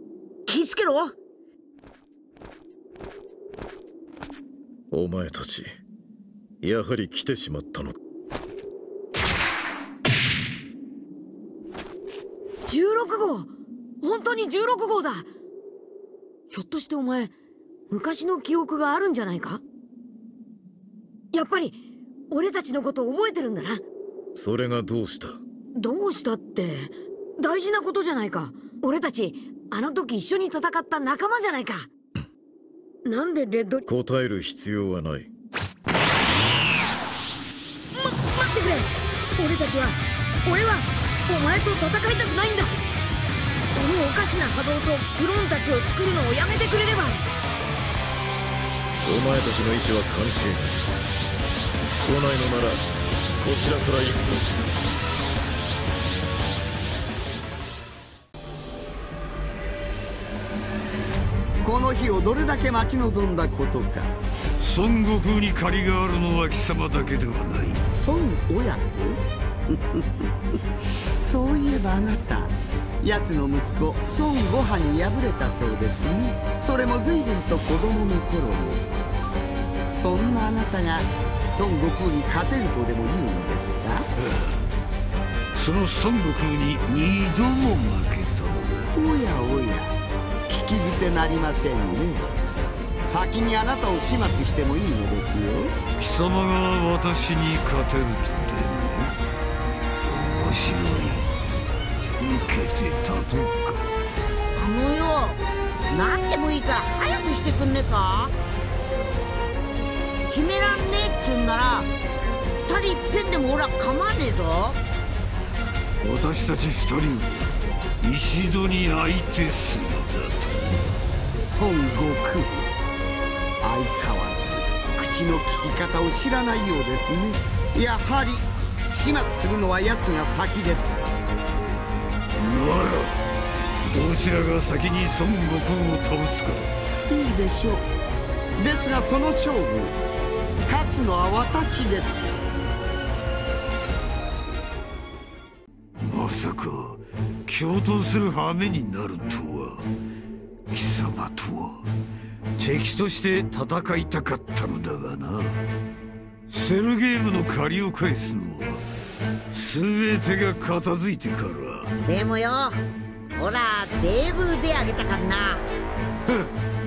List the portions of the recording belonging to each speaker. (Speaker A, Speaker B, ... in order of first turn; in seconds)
Speaker A: 0.5-1.1, 104.5-108.3, 110.3-111.9, 112.7-114.8, 162.0-162.8, 163.3-165.7
Speaker B: 4.9-5.7, 6.6-8.0, 24.3-25.4, 33.9-35.3, 49.0-50.8, 52.0-52.8, 53.4-54.5
Speaker C: 12.7-13.5, 14.0-15.3, 16.5-17.3, 17.9-19.6, 21.3-21.8, 22.3-23.8, 25.7-31.9, 33.0-33.8, 37.9-42.7, 43.7-47.2
Speaker D: 61.6-64.1, 67.9-70.2, 71.2-78.9, 79.9-84.1, 88.9-90.0, 90.5-92.3, 93.0-95.7, 121.3-122.7, 123.6-131.0, 137.1-137.9, 138.6-140.0, 140.7-142.3
Speaker E: 64.6-67.8, 84.2-84.6, 85.5-88.9, 96.0-99.1, 100.0-101.3, 102.2-103.9, 116.0-120.8, 132.4-133.2, 133.9-136.7, 146.0-149.8, 150.7-151.9, 152.6-155.6, 156.5-158.8, 159.5-161.9